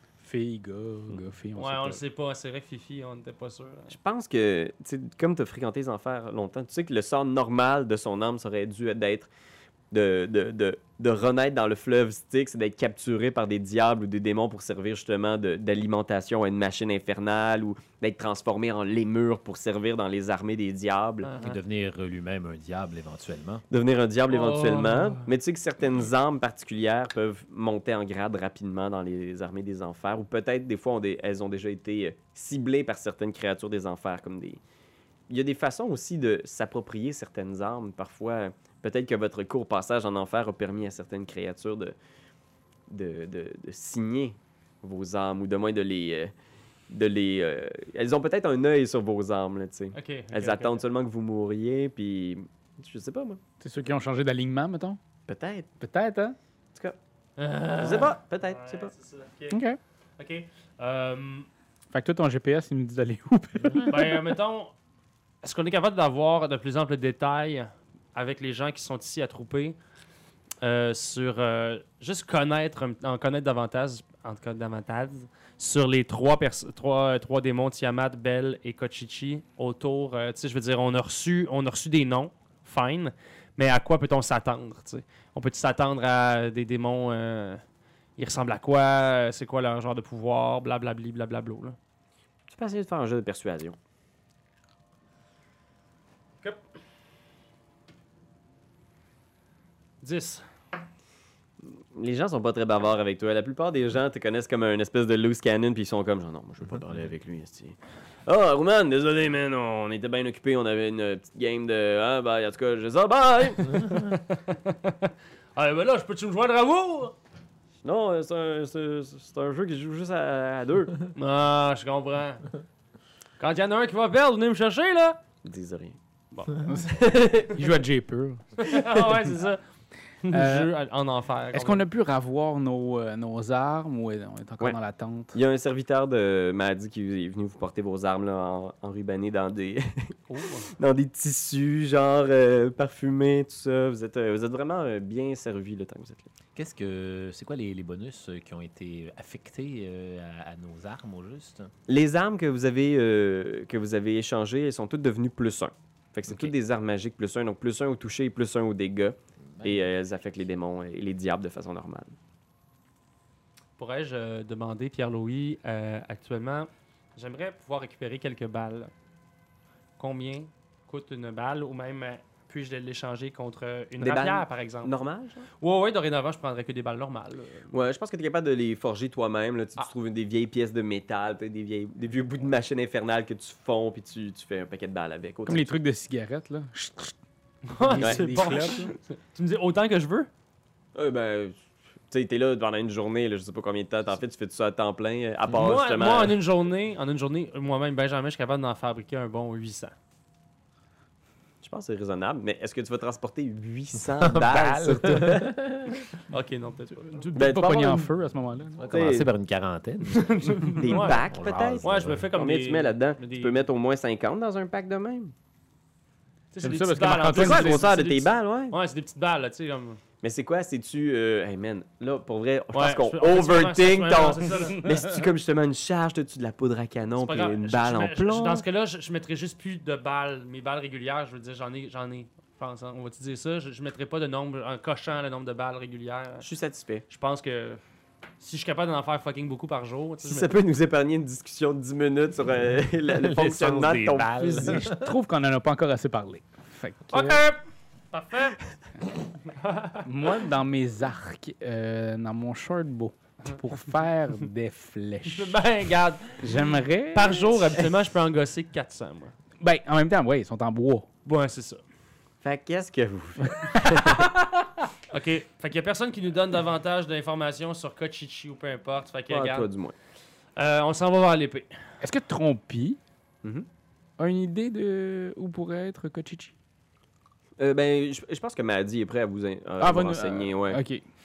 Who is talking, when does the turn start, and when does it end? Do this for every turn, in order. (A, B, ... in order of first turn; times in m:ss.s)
0:00.2-0:02.0 A
0:01.2-0:04.0 B
0:03.9-0:09.3 C
0:09.9-0:21.3 C
0:21.2-0:21.6 B
0:21.4-0:23.6 D
0:23.7-0:34.6 C
0:24.3-0:25.3 B
0:35.3-0:42.0 C
0:42.9-0:46.3 C
0:46.9-0:53.4 C
0:49.9-0:50.8 B
0:53.6-0:55.0 A
0:55.3-0:55.7 C
0:55.8-0:56.4 A
0:57.4-0:59.6 B
0:57.8-0:58.9 C
0:59.5-0:59.8 A
1:00.2-1:01.5 B
1:01.9-1:04.2 A
1:03.8-1:04.7 B
1:05.4-1:09.8 B
1:10.6-1:27.6 B
1:28.2-1:31.8 B
1:32.5-1:33.8 C
1:40.0-1:40.4 B
1:41.6-1:53.9 C
1:53.6-1:57.2 B
1:57.8-2:01.1 C
2:01.2-2:02.5 B
2:03.4-2:05.2 B
2:05.4-2:06.0 C
2:06.3-2:06.7 B
2:06.6-2:08.7 A
2:06.9-2:07.6 C
2:08.6-2:09.6 B
2:10.2-2:11.9 B
2:10.3-2:10.7 A
2:11.5-2:15.4 A
2:15.3-2:20.1 C
2:20.3-2:20.7 B
2:20.8-2:26.3 C
2:26.6-2:31.7 D
2:31.9-2:42.2 C
2:39.5-2:40.0 D
2:43.8-2:48.9 B
2:50.0-2:54.9 B
2:54.0-2:55.5 C
2:55.5-2:57.7 B
2:57.7-3:05.7 C
3:05.4-3:07.2 A
3:07.7-3:10.3 B
3:07.8-3:08.9 A
3:08.0-3:08.8 C
3:11.0-3:11.6 C
3:12.1-3:16.4 C
3:15.5-3:20.0 B
3:21.6-3:25.6 C
3:24.0-3:26.1 D
3:26.3-3:27.3 B
3:27.2-3:29.1 A
3:27.4-3:28.1 C
3:28.8-3:32.3 D
3:28.9-3:29.3 C
3:30.1-3:33.6 B
3:30.8-3:35.3 C
3:36.5-3:40.0 B
3:36.6-3:38.1 A
3:37.3-3:38.8 C
3:40.2-3:48.7 C
3:42.7-3:44.8 B
3:44.6-3:45.3 A
3:47.2-3:56.5 B
3:56.4-3:57.0 C
3:57.1-3:57.8 B
3:58.4-4:00.5 B
4:00.2-4:04.8 C
4:03.0-4:05.2 D
4:04.5-4:07.4 A
4:07.1-4:08.6 B
4:09.6-4:10.0 B
4:10.0-4:15.6 A
4:15.2-4:19.4 B
4:16.4-4:17.8 A
4:19.6-4:21.1 A
4:21.2-4:21.8 B
4:22.4-4:24.3 C
4:23.6-4:24.6 A
4:25.1-4:29.7 B
4:29.3-4:30.0 C
4:30.6-4:31.7 B
4:32.0-4:33.0 A
4:34.2-4:36.5 A
4:37.6-4:40.8 C
4:39.8-4:41.0 A